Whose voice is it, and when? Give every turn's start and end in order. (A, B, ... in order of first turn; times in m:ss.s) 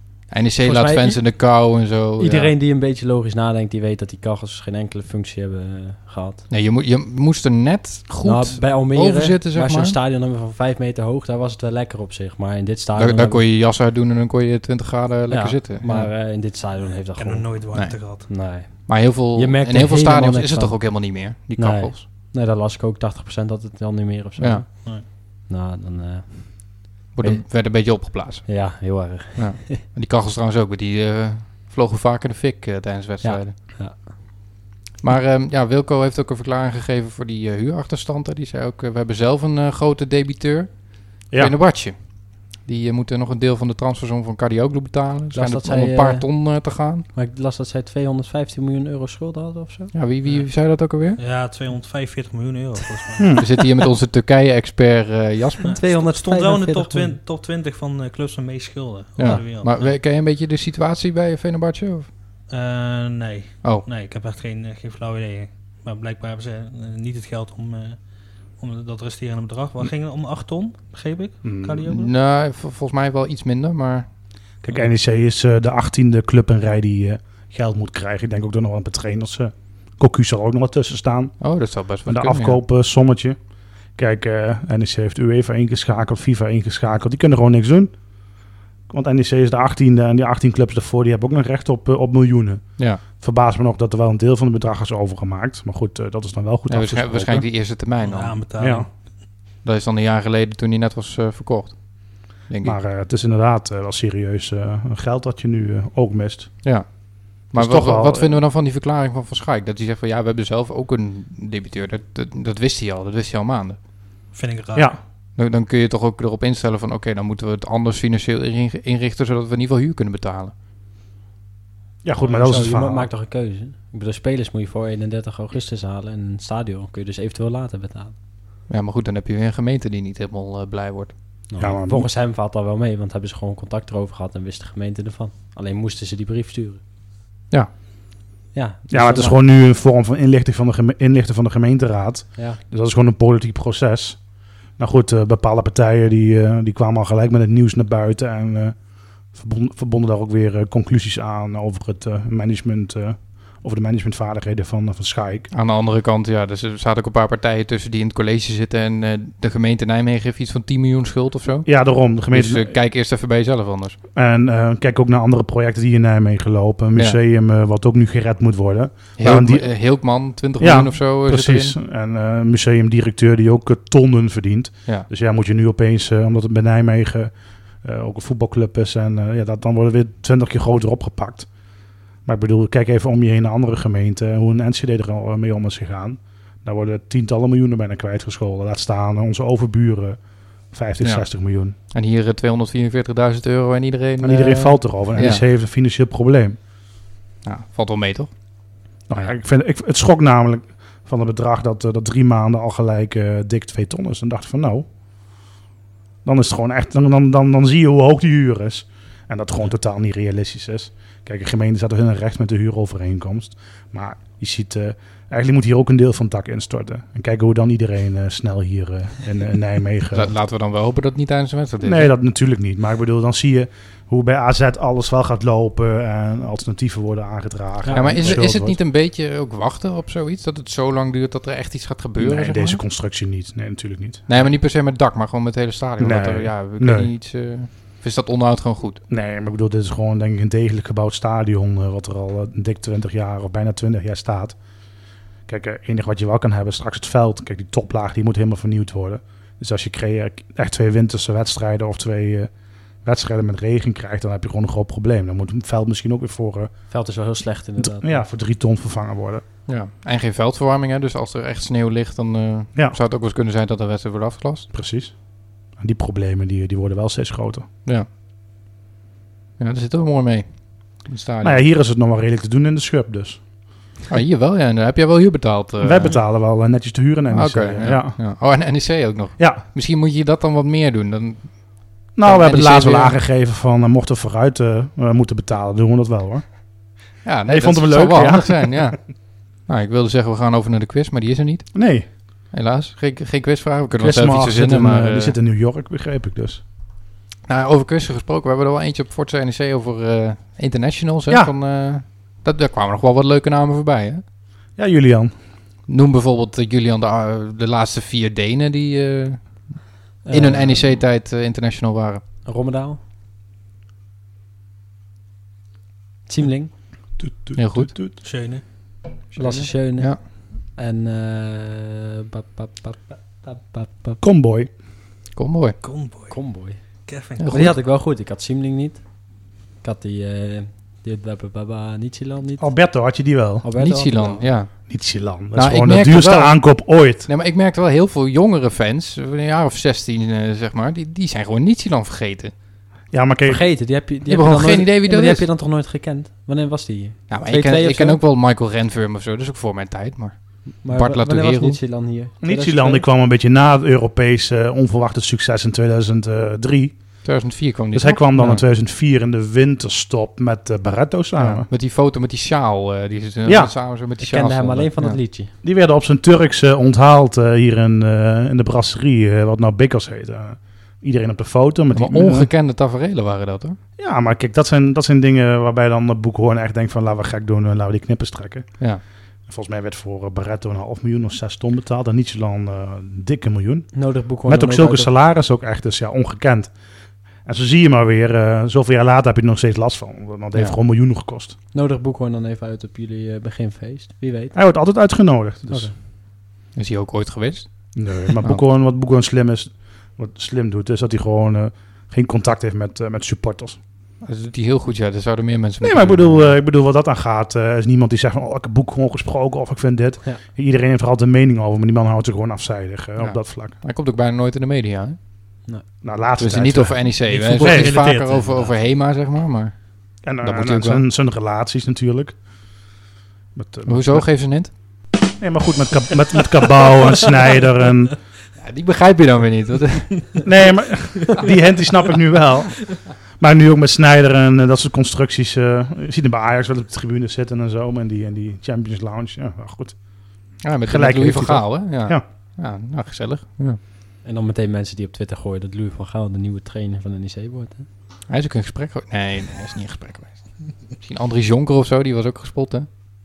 0:00.3-0:02.5 A
0:00.6-0:01.2 B
0:02.2-0:06.4 B
0:06.5-0:10.0 A
0:08.2-0:13.4 B
0:12.9-0:16.1 A
0:15.3-0:17.6 B
0:17.2-0:18.3 C
0:18.3-0:27.4 B
0:18.6-0:22.0 A
0:24.4-0:24.6 A
0:27.1-0:33.5 A
0:28.4-0:29.8 B
0:33.2-0:34.1 B
0:35.0-0:41.9 A
0:42.6-0:47.0 A
0:45.3-0:46.3 B
0:47.1-0:49.9 B
0:49.9-0:51.2 A
0:51.2-0:53.5 C
0:53.2-0:53.4 D
0:53.4-0:55.8 A
0:55.6-1:00.0 C
0:55.7-0:57.2 B
0:59.2-1:02.1 A
1:02.5-1:08.0 C
1:08.6-1:12.1 C
1:11.4-1:11.9 D
1:11.9-1:14.1 A
1:14.6-1:21.4 D
1:21.4-1:22.6 A
1:22.0-1:23.4 D
1:24.0-1:27.9 D
1:28.9-1:37.5 D
1:36.7-1:38.4 A
1:38.0-1:38.9 C
1:38.6-1:38.9 D
1:39.6-1:41.8 A
1:42.5-1:42.8 A
1:42.6-1:46.5 D
1:47.5-1:53.8 A
1:47.5-1:48.4 D
1:54.3-1:54.9 C
1:55.4-2:00.5 A
2:02.0-2:03.1 D
2:02.2-2:08.1 B
2:08.7-2:11.1 A
2:11.5-2:16.8 B
2:11.6-2:12.1 D
2:18.5-2:19.4 B
2:18.9-2:24.2 D
2:24.8-2:28.8 D
2:29.3-2:35.5 D
2:35.5-2:41.7 A
2:41.6-2:42.7 D
2:42.3-2:44.0 A
2:44.1-2:49.7 D
2:49.2-2:51.7 A
2:50.6-2:57.3 D
2:57.8-3:01.5 D
3:02.2-3:10.2 D
3:10.7-3:11.8 D
3:11.9-3:15.4 A
3:14.2-3:16.6 D
3:17.4-3:18.3 A
3:19.1-3:24.9 D
3:26.2-3:40.3 D
3:40.1-3:42.1 A
3:41.8-3:48.8 D
3:47.8-3:48.4 B
3:47.9-3:52.8 A
3:52.2-3:54.5 D
3:54.3-3:59.0 A
3:56.0-3:57.1 D
3:59.1-4:04.6 D
4:05.5-4:12.5 D
4:13.0-4:16.7 D
4:16.9-4:18.2 B
4:17.8-4:19.4 D
4:19.7-4:24.7 A
4:24.7-4:25.1 D
4:25.8-4:27.7 D
4:29.6-4:31.6 A
4:31.4-4:33.4 D
4:34.1-4:36.1 A
4:35.8-4:38.2 D
4:37.3-4:43.2 A
4:39.4-4:39.6 D
4:42.2-4:46.4 D
4:47.2-4:49.0 A
4:47.5-4:49.0 D
4:49.6-4:51.8 A
4:51.7-4:52.1 D
4:52.5-4:55.4 A
4:54.0-4:56.6 D
4:57.5-5:04.2 A
5:04.8-5:05.3 D
5:05.9-5:09.6 A
5:10.2-5:10.9 B
5:10.3-5:12.2 A
5:12.4-5:13.0 B
5:16.3-5:16.7 B
5:17.2-5:18.2 D
5:17.6-5:18.0 A
5:18.2-5:18.6 C
5:19.3-5:24.2 B
5:19.4-5:20.2 A
5:24.2-5:24.7 D
5:25.4-5:25.8 A
5:25.8-5:26.4 C
5:26.3-5:26.8 B
5:27.0-5:27.7 C
5:27.4-5:27.8 A
5:27.5-5:29.0 B
5:29.8-5:32.7 B
5:32.6-5:33.6 D
5:33.6-5:34.5 B
5:33.8-5:34.7 A
5:34.9-5:37.3 D
5:35.5-5:42.5 A
5:43.1-5:43.6 D
5:43.4-5:48.2 B
5:44.3-5:45.4 A
5:47.3-5:51.8 A
5:50.8-5:53.0 B
5:52.4-5:57.0 D
5:57.2-5:58.6 A
5:57.9-6:01.7 D
6:01.4-6:05.2 A
6:03.4-6:03.7 D
6:04.2-6:05.5 B
6:05.6-6:12.5 D
6:11.9-6:13.8 A
6:14.0-6:18.7 D
6:19.5-6:23.9 D
6:23.9-6:25.1 B
6:24.4-6:26.7 D
6:27.4-6:31.6 D
6:31.7-6:34.5 B
6:34.5-6:35.9 D
6:36.8-6:37.7 A
6:38.0-6:43.8 D
6:44.2-6:46.5 A
6:45.8-6:53.8 D
6:53.2-6:55.2 A
6:56.0-6:58.1 D
6:56.4-6:59.7 A
6:57.3-6:58.7 C
7:00.2-7:02.4 D
7:00.4-7:01.0 A
7:03.5-7:04.3 D
7:03.8-7:04.7 A
7:05.4-7:08.2 D
7:08.6-7:10.4 A
7:10.4-7:19.9 D
7:20.6-7:23.8 A
7:20.8-7:22.2 D
7:24.2-7:27.9 B
7:28.3-7:32.9 A